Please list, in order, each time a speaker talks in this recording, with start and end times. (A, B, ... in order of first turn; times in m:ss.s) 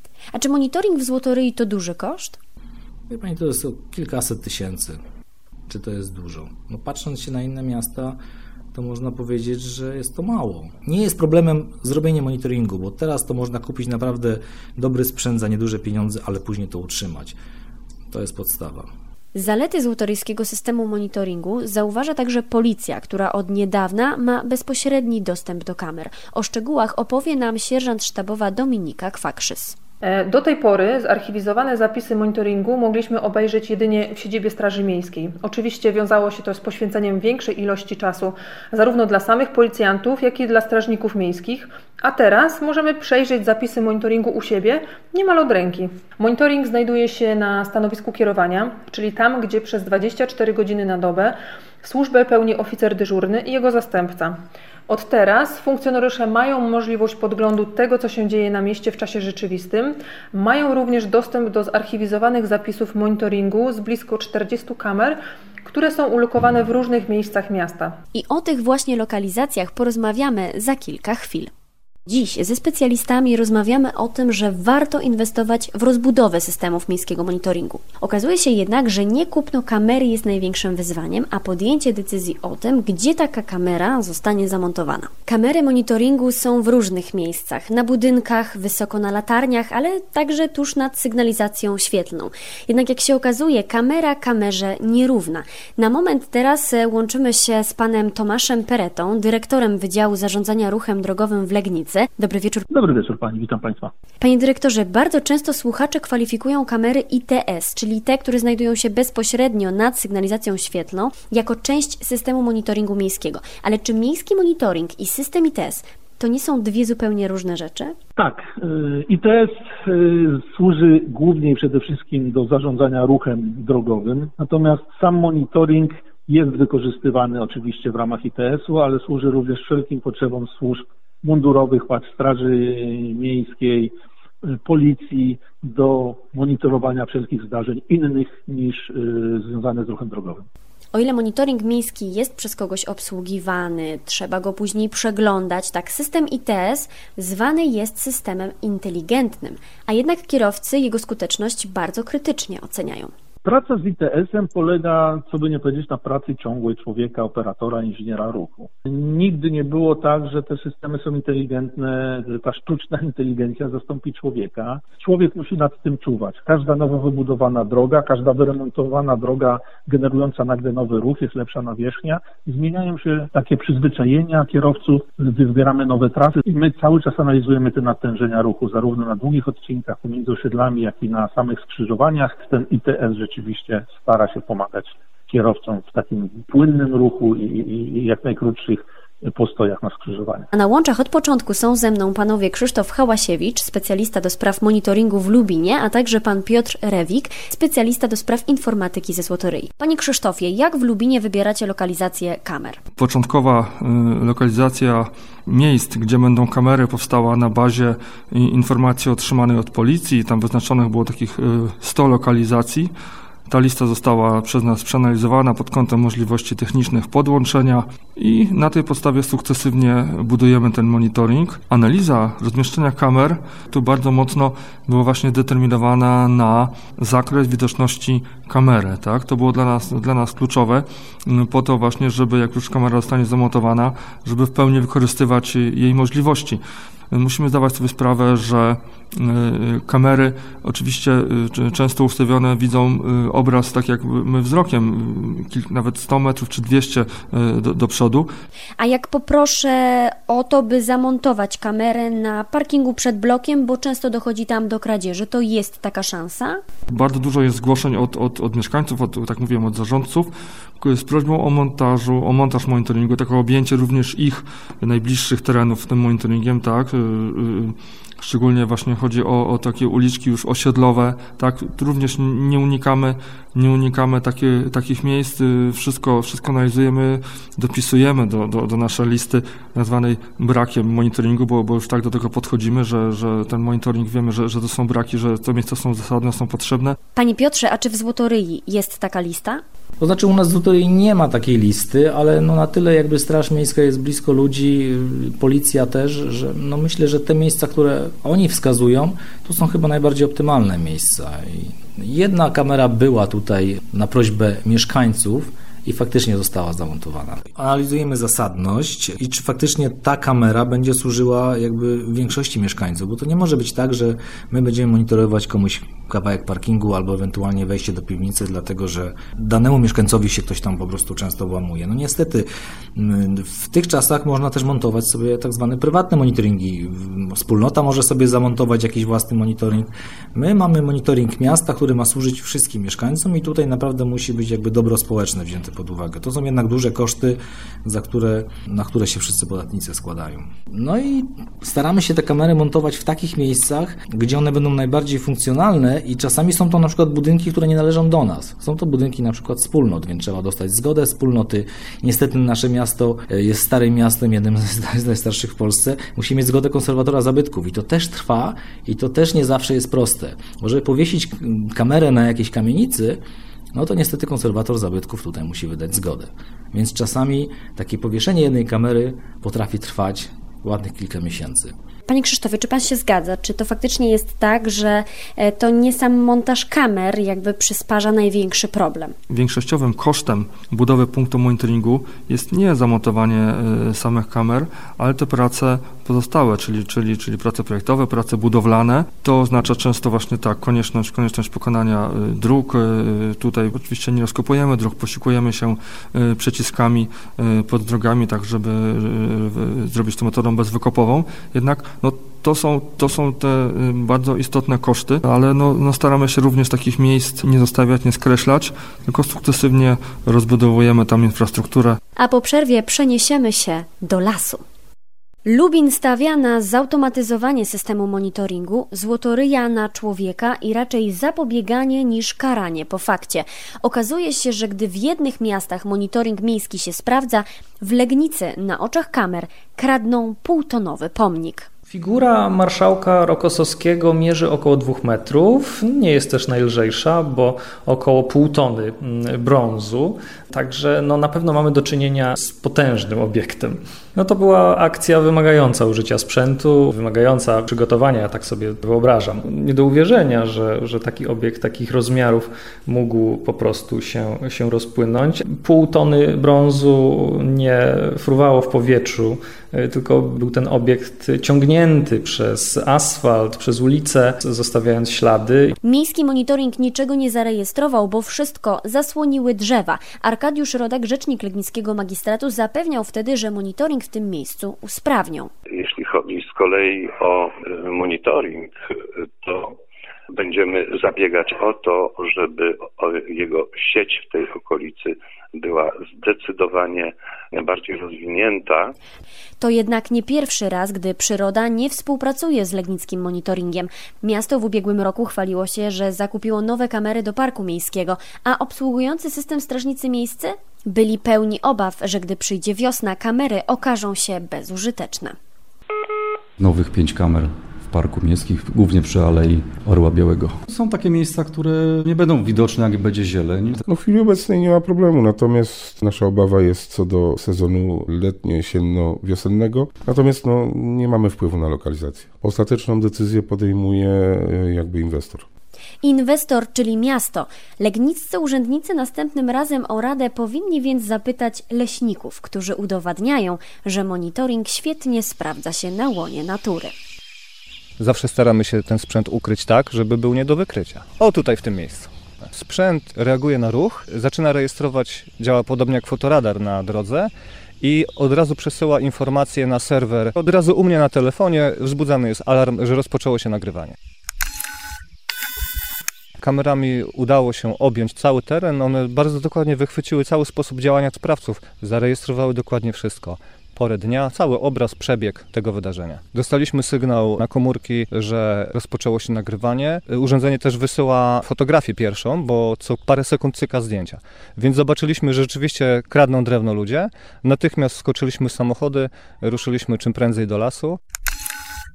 0:00.3-0:02.4 A
0:03.1-0:05.0 B
0:05.7-0:08.2 B
0:08.7-0:17.4 B
0:18.1-0:18.9 B
0:19.4-0:29.8 A
0:30.0-1:08.0 C
1:08.1-1:11.5 A
1:12.1-1:42.7 A
1:42.7-1:43.9 D
1:44.2-1:58.0 A
1:58.2-2:13.9 D
2:14.4-2:20.4 D
2:20.9-2:33.1 A
2:33.4-3:10.5 D
3:10.5-3:22.8 A
3:23.0-3:32.9 E
3:33.5-4:08.3 E
4:08.8-4:16.6 A
4:16.9-4:47.0 E
4:47.2-4:49.6 A
4:50.0-6:03.2 B
6:03.7-6:11.7 B
6:12.1-6:19.2 A
6:19.3-6:52.0 E
6:52.2-6:54.6 A
6:55.5-7:11.7 A
7:11.9-7:45.8 F
7:45.8-7:55.5 A
7:55.7-7:59.8 G
8:00.3-8:08.9 G
8:09.6-8:25.4 A
8:26.6-8:33.8 H
8:33.9-8:45.5 I
8:46.0-8:56.9 A
8:58.0-9:14.0 J
9:16.4-9:41.0 J